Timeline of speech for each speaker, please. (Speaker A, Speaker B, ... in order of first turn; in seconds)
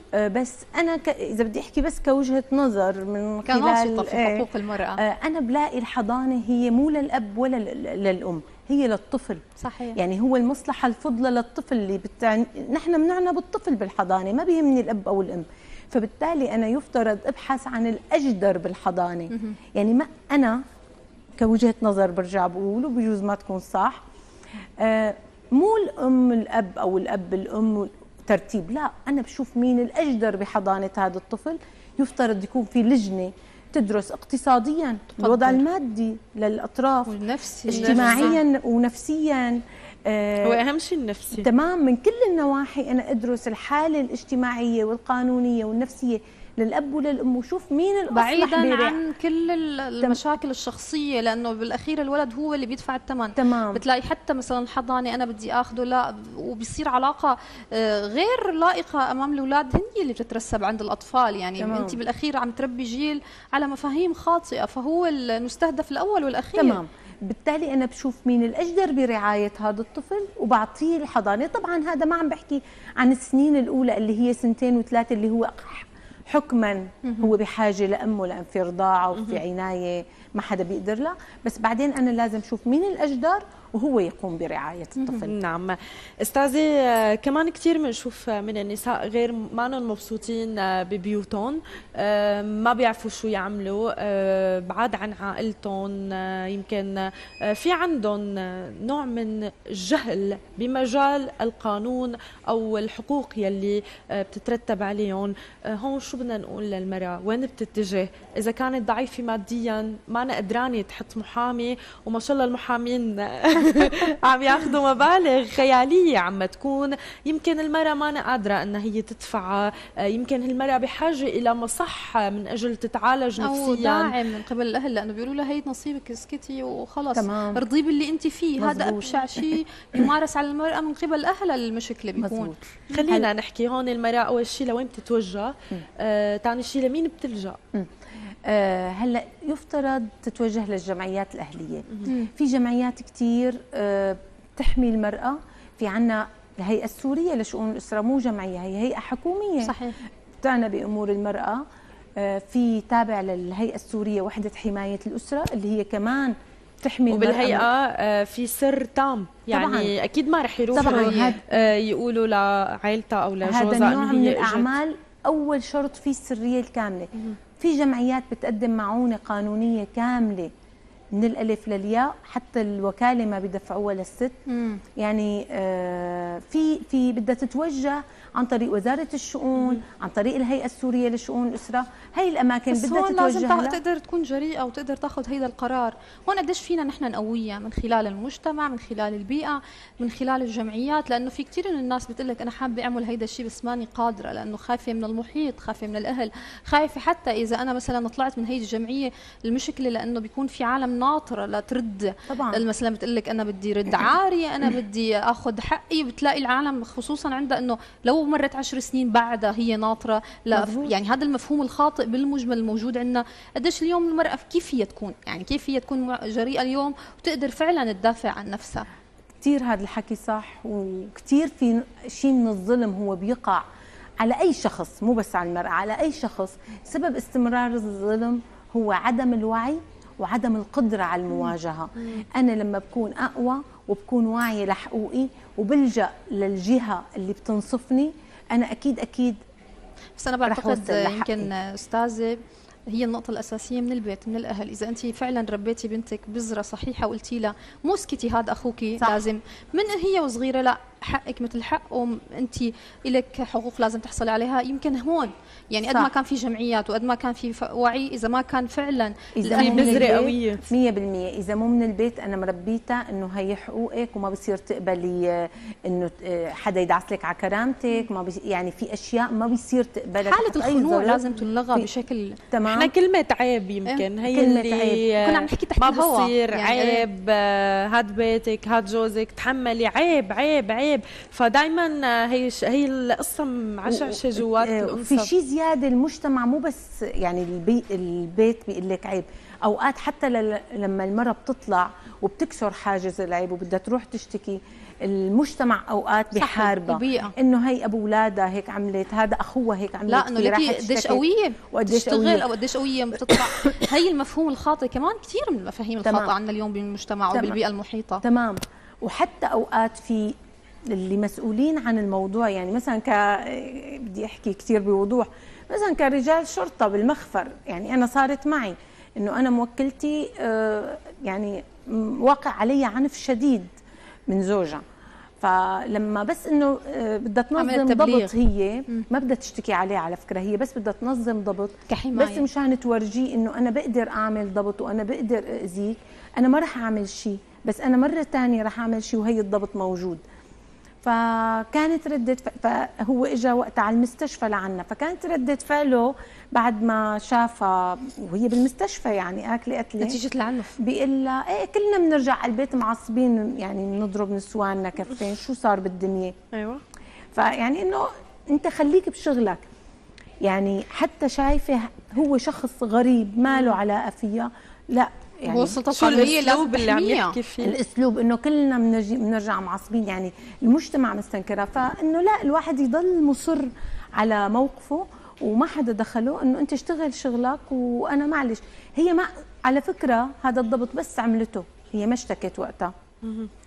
Speaker A: 0.1-9.4, 9.9-20.6, 21.4-24.0, 24.8-37.1, 37.7-40.6, 41.3-49.0, 53.4-53.8, 61.6-62.0, 66.5-85.3, 127.2-127.7, 128.6-129.5, 132.2-133.3, 138.5-149.8, 150.4-151.6, 152.2-157.7, 159.5-159.9, 160.7-161.4, 163.4-170.5, 171.2-174.3, 175.0-183.8, 202.3-202.7, 210.5-210.9, 219.4-223.6, 224.2-239.4, 240.4-241.5, 249.0-249.2, 259.4-271.9, 272.5-272.9, 274.3-275.1, 283.9-302.5, 303.1-303.9, 306.0-306.3, 307.3-307.6, 308.2-310.3, 310.9-323.7, 324.3-324.8, 325.4-340.2, 341.0-350.2, 350.8-356.4, 357.3-359.6, 360.4-365.8, 367.6-382.9
Speaker B: 3.5-5.0, 9.6-10.0, 35.2-35.6, 37.1-38.4, 48.1-66.8, 77.0-77.4, 123.4-132.6, 149.6-150.0, 160.8-161.4, 174.5-174.8, 182.7-218.8, 240.2-260.2, 270.2-272.4, 275.2-277.1, 296.4-297.3, 300.1-308.2, 327.6-328.3, 331.9-332.5, 350.0-350.8, 365.4-367.4
Speaker C: 37.7-38.4, 40.4-41.5, 85.2-124.1, 132.9-137.6, 157.1-164.7, 259.5-260.6, 272.7-285.3, 356.5-356.8, 365.9-367.8, 383.2-383.5